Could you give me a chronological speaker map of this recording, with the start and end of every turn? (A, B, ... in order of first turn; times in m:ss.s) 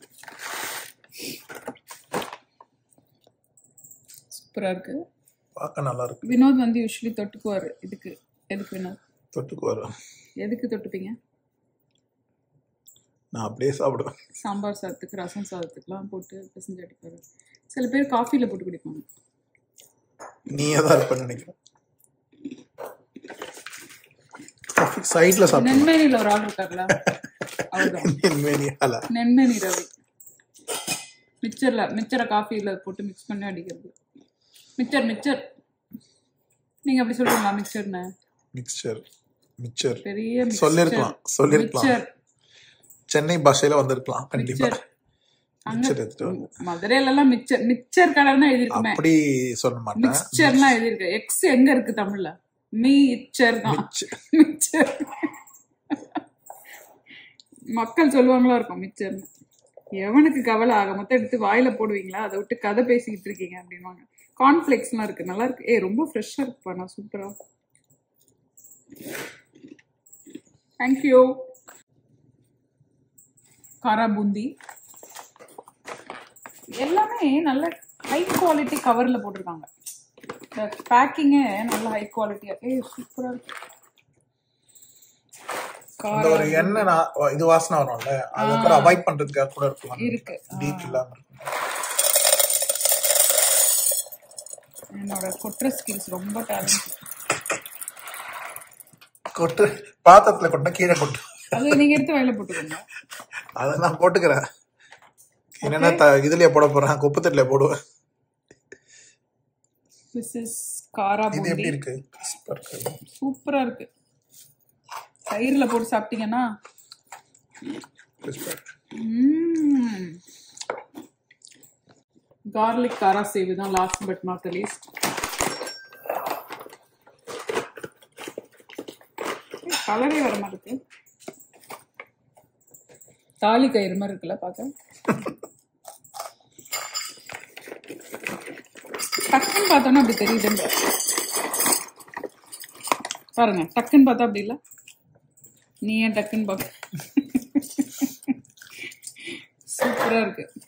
0:04.3-0:05.0 A
0:05.6-0:06.3 B
0:06.2-0:09.0 A
0:09.3-0:09.9 B
0:10.4-0:11.2 A
0:13.3-0:14.1 B
0:14.4-0:19.0 A
0:20.5-0:21.5 B
0:24.7-0:25.9 B
0:25.5-0:27.0 A
0:27.0-0:29.1 B
0:27.7-0:28.2 A
0:29.1-0:29.9 A
0:31.4-0:33.9 A
0:34.8-0:35.4 A
0:36.8-0:38.1 A
0:38.5-0:39.0 B
0:39.6-0:42.0 B
0:40.0-0:42.1 A
0:43.1-0:44.8 B
0:44.3-0:44.8 A
0:45.7-0:46.5 B
0:45.7-0:49.0 A
0:48.7-0:50.8 B
0:49.9-0:55.3 A
0:53.6-0:54.1 B
0:55.9-0:56.2 A
0:57.7-0:59.3 A
1:00.0-1:07.3 A
1:10.8-1:11.3 A
1:13.8-1:14.5 A
1:16.8-1:19.7 A
1:20.6-1:23.4 A
1:26.0-1:26.9 A
1:26.1-1:31.5 B
1:28.4-1:29.0 A
1:30.0-1:31.0 A
1:34.9-1:37.0 A
1:39.3-1:41.8 B
1:41.5-1:42.8 A
1:43.6-1:44.4 B
1:45.6-1:47.7 B
1:45.6-1:46.0 A
1:50.1-1:51.8 A
1:51.3-1:53.0 B
1:53.2-1:53.9 A
1:55.3-1:56.4 A
1:58.2-1:58.7 B
1:59.0-2:00.2 A
2:02.5-2:04.8 A
2:09.6-2:10.8 A
2:13.4-2:14.7 A
2:19.3-2:20.7 A
2:23.3-2:24.6 A
2:25.8-2:28.4 A
2:29.7-2:30.5 A